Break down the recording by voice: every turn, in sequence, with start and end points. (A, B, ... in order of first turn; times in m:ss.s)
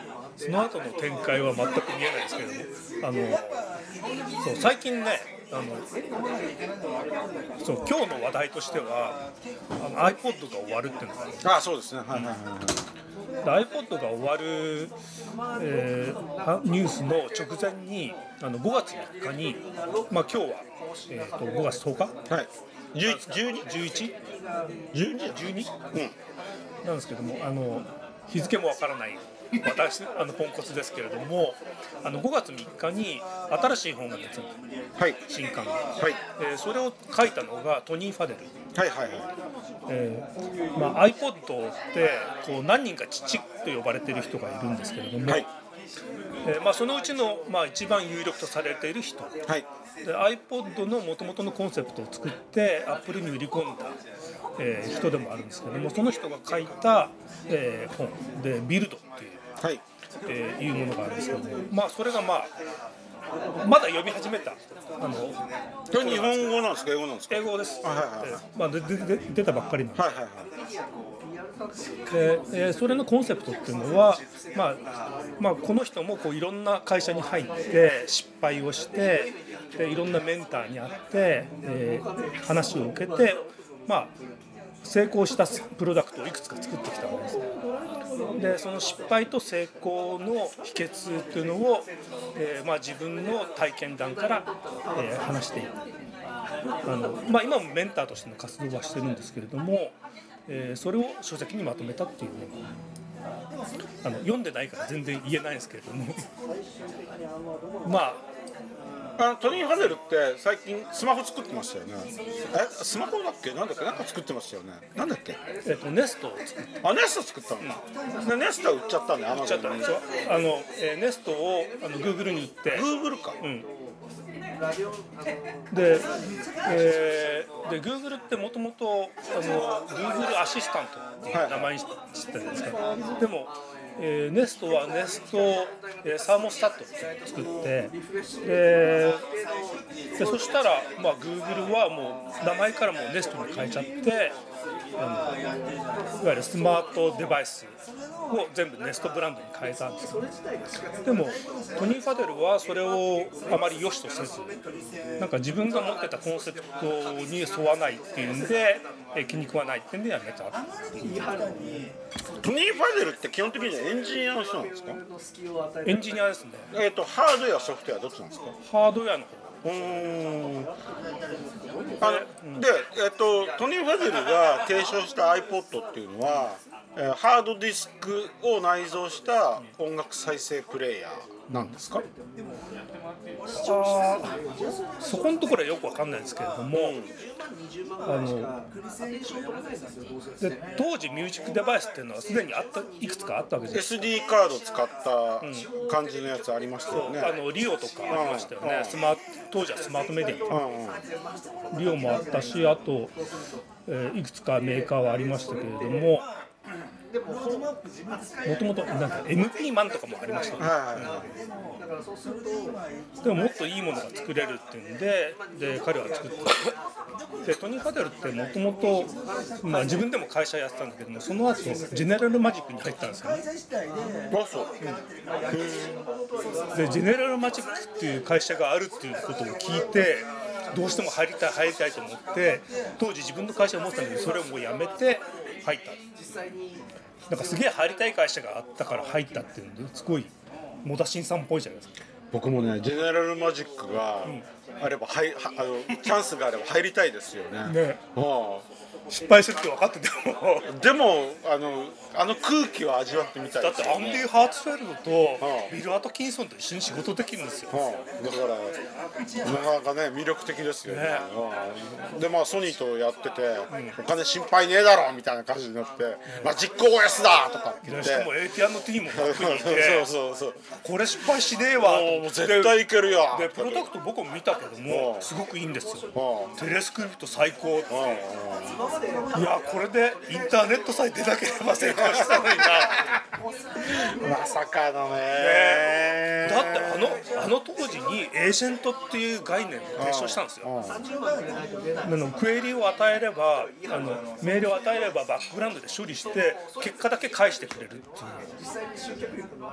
0:00.4-0:03.4 A
0:03.3-0:03.7 B
0:04.4-0:05.8 A
0:07.6-0:09.2 A
0:09.8-0:11.4 A
0:11.4-0:12.8 B
0:13.4-0:14.9 A
0:15.5-0:22.2 A
0:22.3-0:23.7 B
0:23.0-0:24.2 A
0:24.9-0:26.1 B
0:25.3-0:25.7 A
0:26.8-0:34.5 A
0:35.3-0:35.8 A
0:36.4-0:38.5 A
0:38.7-0:39.3 B
0:39.9-0:45.4 A
0:46.4-0:49.3 A
0:50.0-0:53.9 A
0:54.6-0:59.4 A
1:00.2-1:02.5 A
1:03.6-1:05.4 A
1:05.9-1:08.4 B
1:05.9-1:06.6 A
1:07.3-1:10.1 A
1:10.0-1:10.5 B
1:12.1-1:14.8 A
1:15.4-1:24.1 A
1:24.8-1:27.4 A
1:28.4-1:35.7 A
1:36.8-1:40.0 A
1:40.5-1:42.7 A
1:44.0-1:46.2 A
1:47.8-1:48.2 A
1:49.2-1:55.4 B
1:55.6-1:56.7 A
1:56.8-2:00.0 B
1:59.4-2:02.9 A
2:02.7-2:03.4 B
2:03.4-2:03.7 A
2:05.7-2:06.0 A
2:06.6-2:19.2 A
2:11.3-2:11.7 B
2:20.2-2:24.4 A
2:25.0-2:25.4 A
2:26.2-2:27.7 A
2:28.3-2:30.2 A
2:31.0-2:34.5 A
2:35.2-2:40.6 A
2:42.4-2:45.0 B
2:45.8-2:46.7 A
2:46.7-2:48.6 B
2:48.6-2:49.8 A
2:49.6-2:50.7 B
2:52.0-2:52.6 A
2:52.0-3:02.0 B
3:03.6-3:04.3 A
3:05.0-3:07.0 A
3:06.7-3:07.2 B
3:08.0-3:08.5 A
3:10.4-3:14.0 A
3:13.7-3:17.4 B
3:15.4-3:15.7 A
3:16.9-3:20.4 A
3:18.1-3:19.0 B
3:20.5-3:21.0 B
3:21.7-3:23.1 A
3:23.9-3:26.2 A
3:28.4-3:31.2 A
3:30.6-3:31.2 B
3:33.2-3:36.7 A
3:37.4-3:43.4 A
3:44.3-3:44.7 B
3:45.5-3:46.0 B
3:46.7-3:56.0 A
3:57.3-4:00.3 A
4:00.8-4:01.9 A
4:02.3-4:08.6 B
4:07.6-4:08.0 A
4:09.1-4:10.7 A
4:10.6-4:14.3 B
4:13.6-4:17.7 A
4:15.4-4:15.7 B
4:17.7-4:18.8 B
4:19.4-4:28.3 B
4:20.9-4:21.3 A
4:23.7-4:24.0 A
4:27.8-4:30.1 A
4:29.1-4:30.6 B
4:30.8-4:37.9 A
4:31.8-4:33.9 B
4:34.9-4:35.3 B
4:36.1-4:36.5 B
4:37.9-4:38.8 B
4:39.3-4:43.1 A
4:41.8-4:43.2 B
4:43.9-4:47.1 B
4:45.4-4:50.7 A
4:50.0-4:51.0 B
4:52.0-4:58.5 A